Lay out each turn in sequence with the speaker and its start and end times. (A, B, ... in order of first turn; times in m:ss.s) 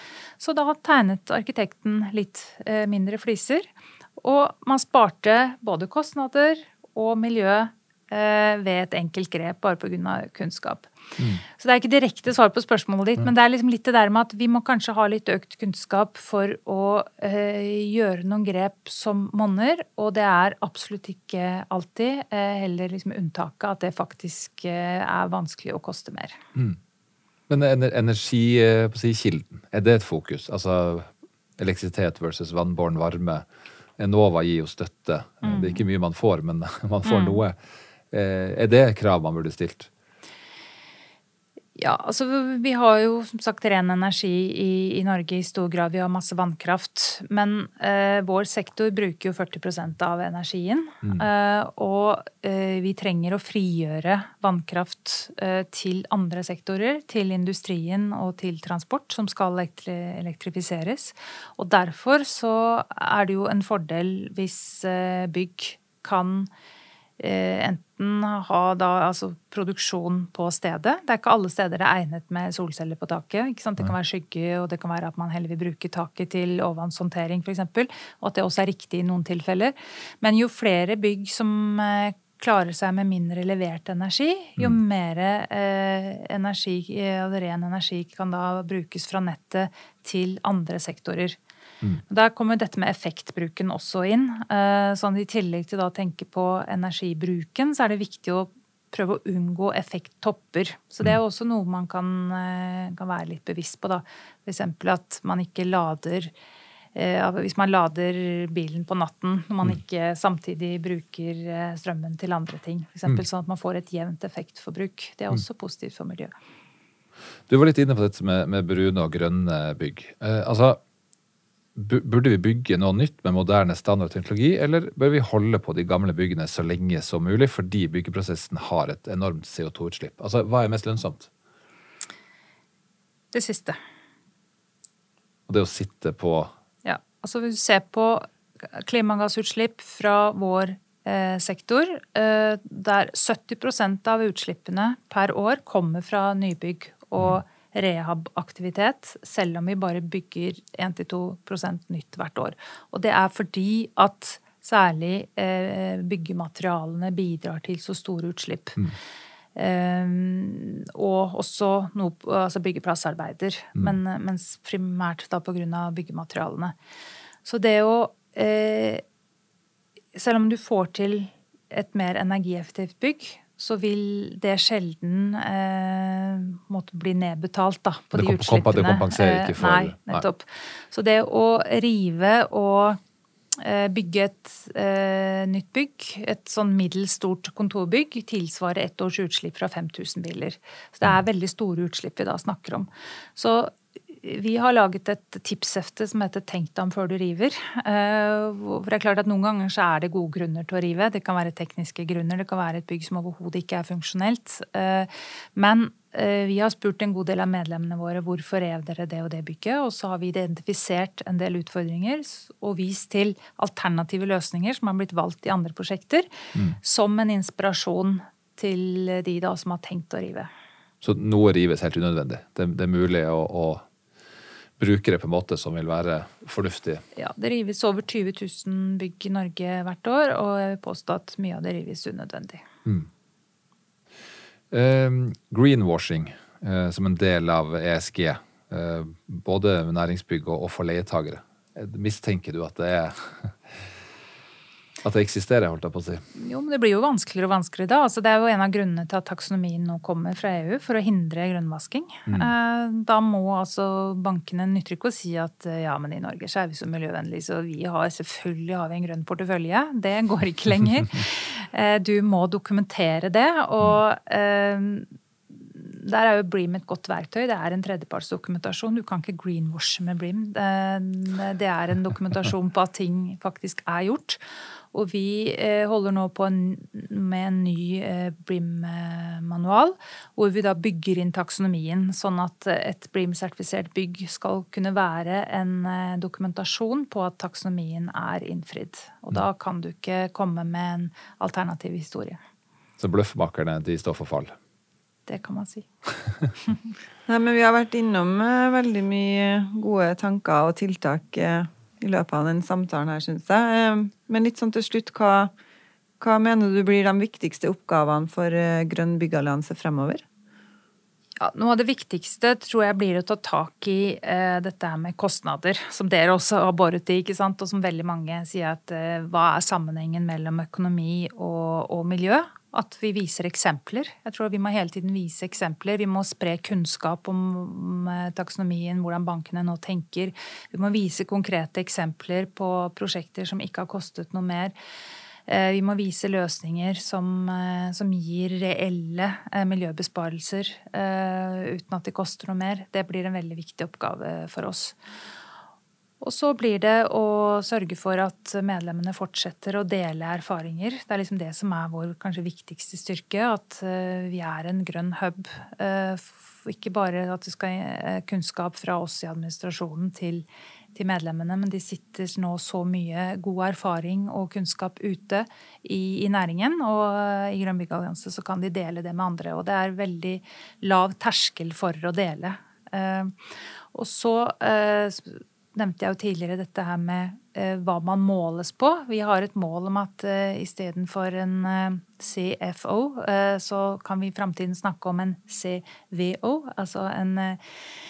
0:00.4-0:10.9 A
0:11.5-0:26.4 A
0:27.5-0:33.4 B
0:34.0-0:37.5 B
0:35.4-0:35.8 A
0:37.0-0:37.4 A
0:38.1-0:39.9 B
0:41.8-1:06.5 A
1:07.2-1:31.4 A
1:32.1-1:46.3 A
1:46.9-1:56.3 A
1:57.5-2:00.8 B
2:01.8-2:11.3 B
2:13.3-2:13.8 A
2:15.5-2:16.5 B
2:16.8-2:38.8 A
2:39.5-2:46.7 A
2:47.4-2:49.0 A
2:50.1-3:03.0 A
2:58.1-3:00.2 B
3:03.6-3:36.3 A
3:36.8-3:40.5 A
3:41.0-3:43.8 B
3:44.8-3:47.0 B
3:47.2-3:52.6 A
3:54.7-4:03.7 B
4:05.0-4:06.2 B
4:06.4-4:34.4 A
4:34.9-4:52.4 A
4:53.0-4:54.5 B
4:55.3-4:55.9 A
4:57.3-5:05.5 C
5:06.2-5:10.2 C
5:11.4-5:34.7 A
5:35.5-5:45.0 A
5:46.2-6:13.3 A
6:13.9-6:27.6 A